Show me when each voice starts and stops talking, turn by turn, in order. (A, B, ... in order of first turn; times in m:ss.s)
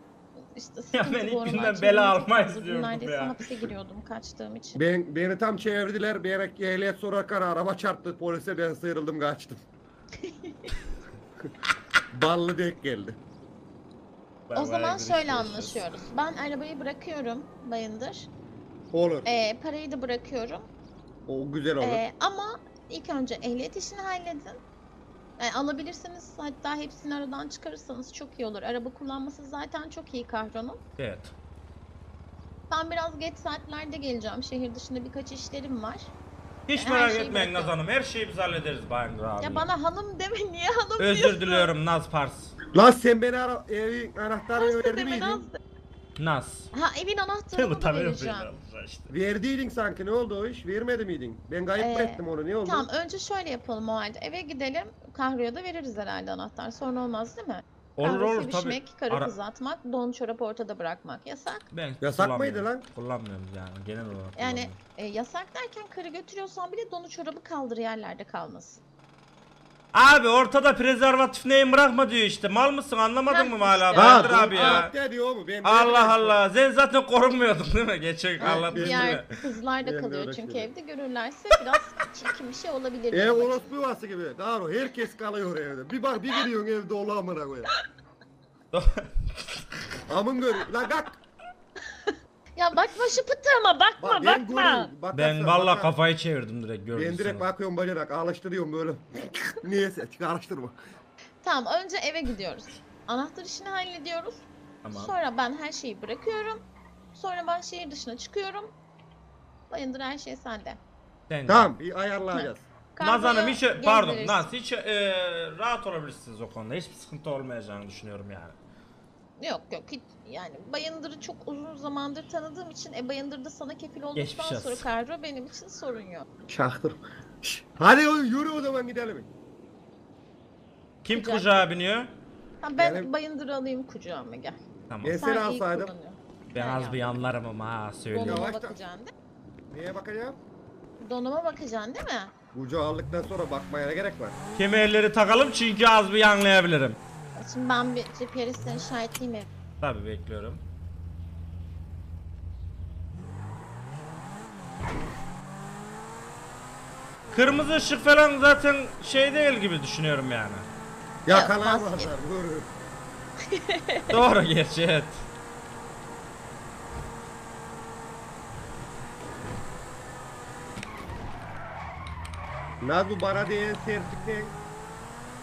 0:00.4-0:04.8 A
0:00.9-0:03.4 B
0:04.8-0:09.6 C
0:10.2-0:10.7 A
0:12.1-0:13.2 C
0:14.5-0:16.1 B
0:14.6-0:18.3 A
0:18.9-0:19.3 C
0:19.2-0:20.7 A
0:21.3-0:22.0 C
0:21.8-0:24.6 A
0:25.4-0:30.8 A
0:31.0-0:31.3 B
0:32.7-0:36.1 A
0:36.7-0:39.7 B
0:36.7-0:37.8 A
0:39.4-0:41.7 A
0:41.0-0:42.6 B
0:42.7-0:45.5 C
0:44.6-0:45.6 A
0:46.2-0:46.7 B
0:46.7-0:48.5 A
0:47.6-0:49.1 B
0:49.1-0:52.9 C
0:51.8-1:01.7 A
0:58.0-0:59.3 B
1:01.7-1:04.8 B
1:02.0-1:02.9 C
1:04.4-1:08.8 A
1:09.9-1:14.9 B
1:13.3-1:14.9 A
1:13.9-1:16.4 C
1:15.6-1:19.3 B
1:18.4-1:23.7 A
1:18.4-1:19.2 C
1:19.8-1:20.7 C
1:23.1-1:27.7 C
1:28.7-1:30.0 B
1:30.1-1:31.2 C
1:32.1-1:34.9 A
1:34.0-1:35.9 C
1:35.1-1:37.4 B
1:36.9-1:40.8 C
1:41.4-1:46.6 A
1:44.8-1:45.1 B
1:47.1-1:48.7 A
1:49.7-1:50.8 A
1:51.3-1:51.7 B
1:51.5-1:52.6 C
1:52.3-1:54.5 A
1:53.0-1:58.6 B
1:59.4-2:06.3 A
2:04.2-2:04.8 B
2:06.5-2:09.3 C
2:11.0-2:12.1 B
2:11.1-2:11.7 A
2:12.6-2:14.6 A
2:12.8-2:13.1 C
2:14.9-2:15.2 B
2:15.0-2:15.9 C
2:15.2-2:17.3 A
2:16.5-2:18.5 B
2:18.1-2:19.1 A
2:18.2-2:18.8 C
2:19.7-2:20.4 C
2:21.0-2:22.3 A
2:22.5-2:24.4 C
2:24.6-2:27.0 B
2:27.4-2:29.5 A
2:29.8-2:30.6 B
2:37.3-2:40.7 B
2:41.3-2:42.7 C
2:41.3-2:42.1 A
2:43.5-2:44.2 A
2:44.1-2:45.2 B
2:52.8-2:54.6 C